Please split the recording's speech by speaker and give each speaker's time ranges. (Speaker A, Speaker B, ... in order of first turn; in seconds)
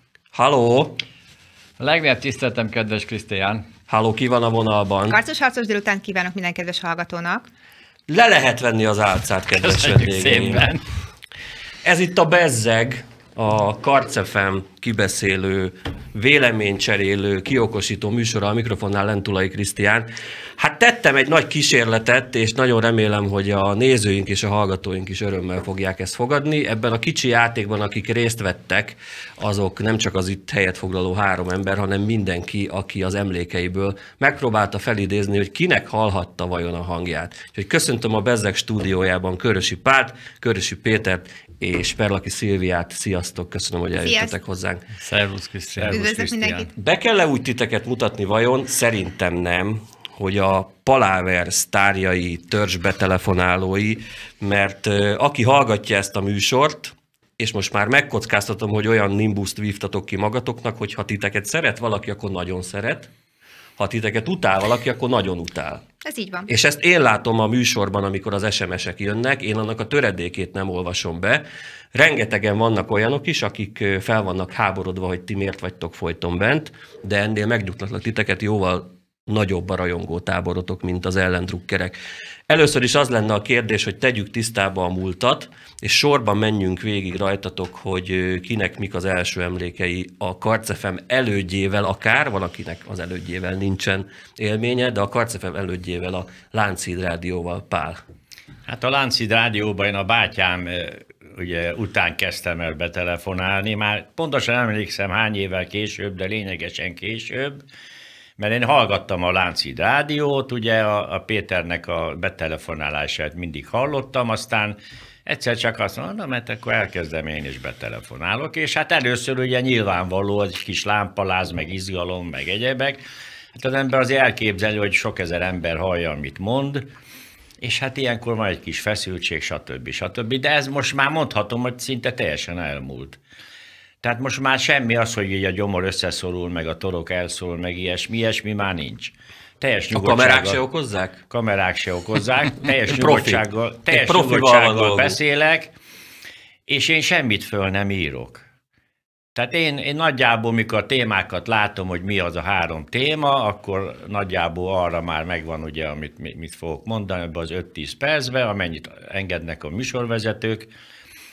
Speaker A: 0.3-1.0, 3.9-5.2, 8.1-10.7, 11.8-44.9, 46.8-63.1, 63.8-65.8, 66.5-98.0, 139.9-141.2, 142.9-145.2
Speaker B: 1.8-3.6, 9.6-10.8, 45.0-46.7
Speaker C: 5.1-7.5, 44.0-44.3, 45.9-46.7, 66.0-66.5
Speaker D: 45.8-46.0, 98.7-107.6, 108.4-123.0, 123.5-126.9, 127.6-133.2, 134.0-140.6, 141.3-145.7, 146.7-148.4, 149.3-160.7